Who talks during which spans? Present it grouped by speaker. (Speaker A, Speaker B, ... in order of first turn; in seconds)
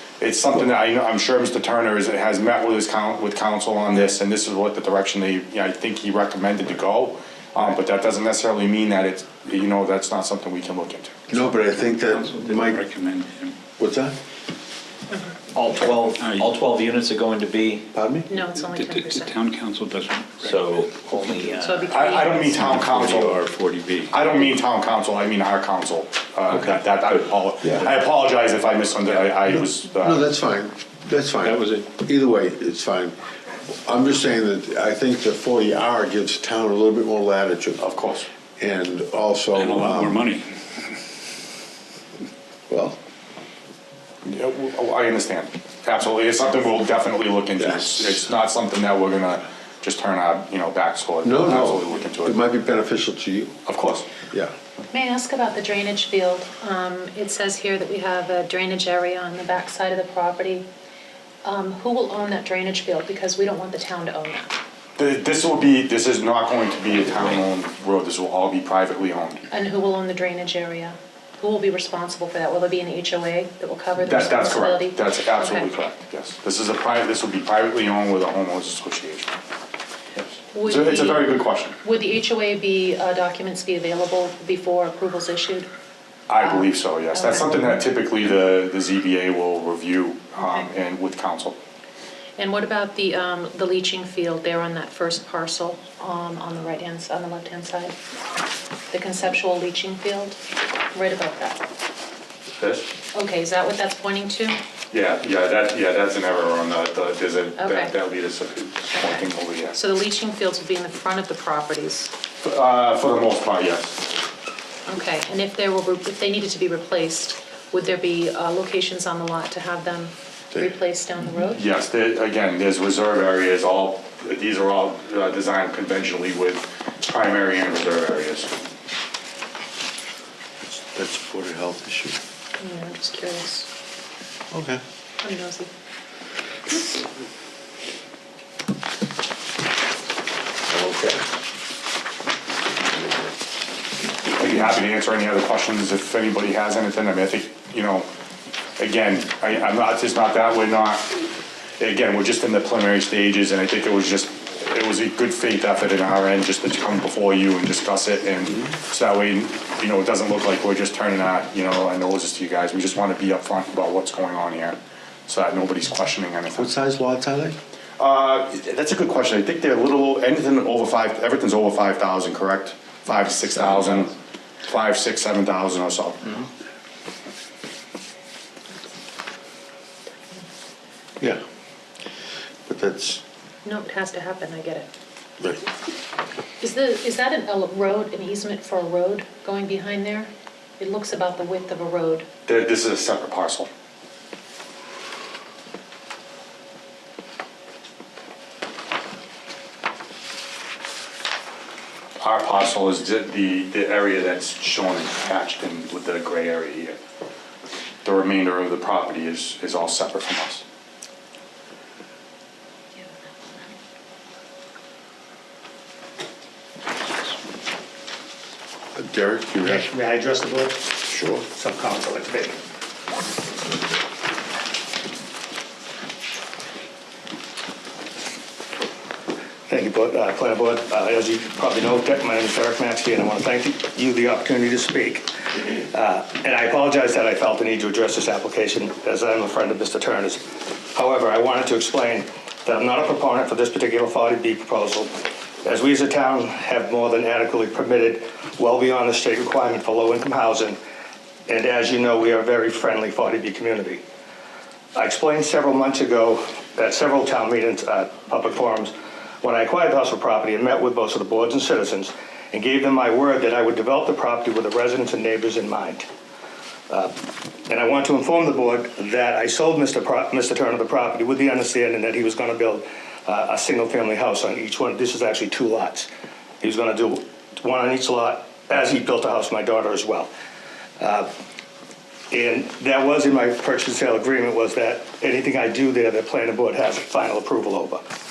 Speaker A: 0.2-11.3, 21.8-23.4, 24.1-30.3, 37.8-38.3, 44.2-52.4, 53.7-54.1, 65.0-69.4, 74.0-79.3, 80.2-81.8, 86.3-91.6, 102.6-102.9, 104.9-109.8, 112.4-114.1, 121.5-128.5, 144.3-148.1, 148.8-151.2, 151.8-166.7, 168.0-176.4, 192.5-193.7, 202.2-207.0, 208.0-210.6
Speaker B: 11.3-12.8, 13.8-14.2, 17.9-18.3, 29.4-33.1, 33.9-37.8, 38.6-40.2, 42.7-43.0, 47.6-48.2, 51.2-53.5, 130.6-132.2, 134.5-134.8, 140.7-141.2, 166.6-167.6, 182.7-183.2, 218.9-219.9, 221.1-221.4
Speaker C: 11.4-13.6, 16.2-16.5, 18.6-20.6, 39.5-40.5
Speaker D: 15.5-17.9, 20.4-24.2, 26.5-27.2, 31.4-31.9
Speaker E: 18.3-19.4, 21.3-22.6, 54.9-60.6, 61.4-64.6, 69.5-75.7, 80.5-85.7, 86.4-87.8, 92.4-98.0, 98.9-100.4, 100.9-101.6, 103.1-104.6, 107.6-107.9, 108.9-112.1, 114.9-121.6, 132.6-133.7, 135.2-135.7, 183.7-184.9, 186.6-192.3
Speaker F: 219.6-222.6, 229.7-250.8, 251.5-254.0, 254.9-266.1, 266.9-267.1, 267.7-276.1, 276.6-280.3, 281.0-281.3, 282.3-288.1